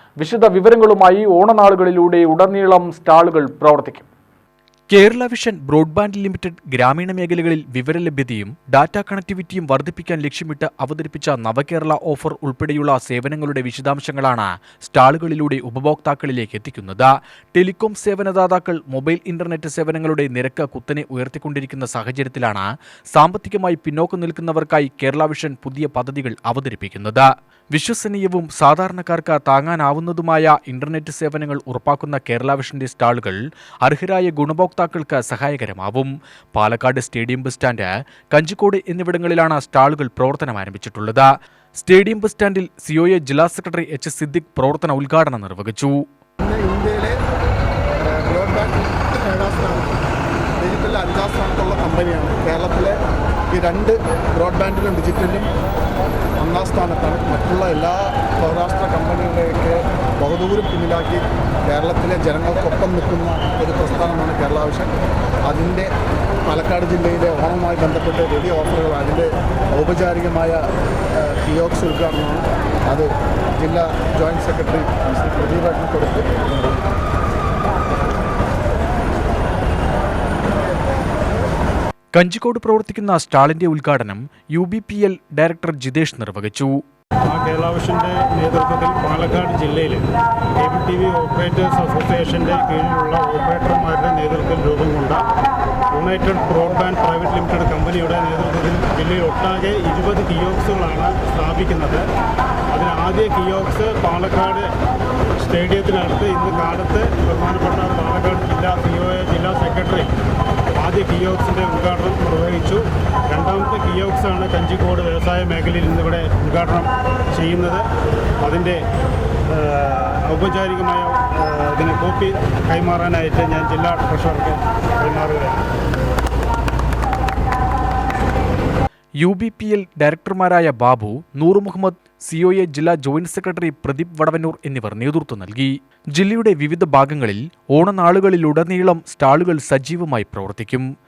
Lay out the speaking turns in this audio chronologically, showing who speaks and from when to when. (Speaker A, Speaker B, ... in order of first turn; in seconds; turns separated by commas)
Speaker A: 0.2-4.1, Speaker B: 4.9-46.0, Speaker C: 46.4-47.2, Speaker C: 48.1-49.9, Speaker C: 50.6-53.0, Speaker C: 53.5-55.5, Speaker C: 56.4-64.9, Speaker C: 65.5-65.9, Speaker C: 66.5-70.6, Speaker C: 71.2-76.8, Speaker B: 82.1-86.8, Speaker D: 87.2-90.0, Speaker D: 90.6-95.2, Speaker D: 95.9-102.1, Speaker D: 102.7-104.7, Speaker D: 105.4-110.1, Speaker D: 110.8-117.9, Speaker D: 118.4-118.8, Speaker D: 119.5-125.6, Speaker B: 129.2-140.8